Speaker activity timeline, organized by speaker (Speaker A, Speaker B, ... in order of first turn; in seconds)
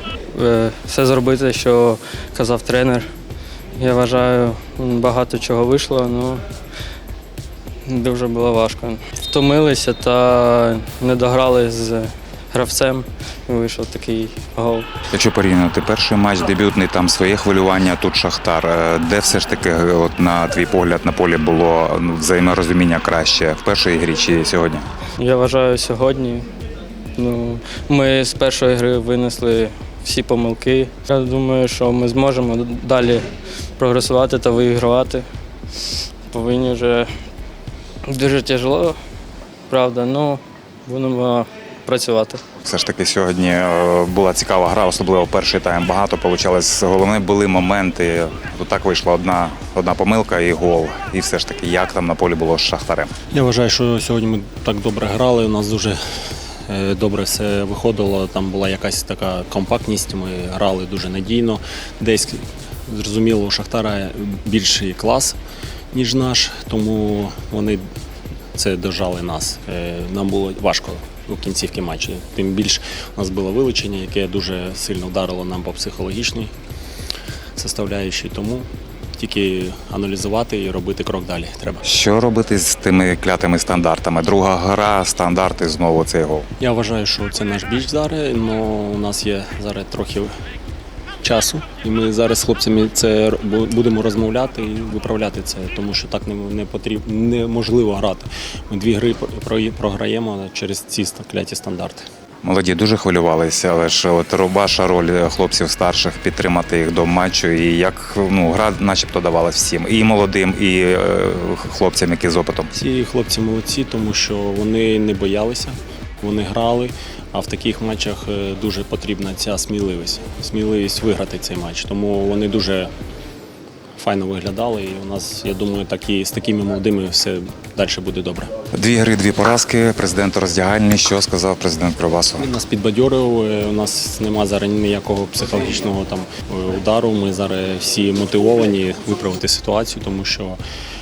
Speaker A: 0.3-3.1, 3.8-6.4, 7.8-14.9, 25.2-26.5, 27.1-33.3, 33.8-35.3, 36.3-37.1, 38.0-39.0, 39.7-42.4
Speaker B: 15.1-24.9, 42.6-53.1, 81.8-86.5, 102.4-112.7, 128.7-132.5
Speaker C: 53.3-56.0, 56.7-65.4, 65.9-67.8, 68.5-76.5, 77.5-81.8, 86.6-90.3, 91.2-102.1, 112.7-122.9, 124.0-128.5, 132.3-140.6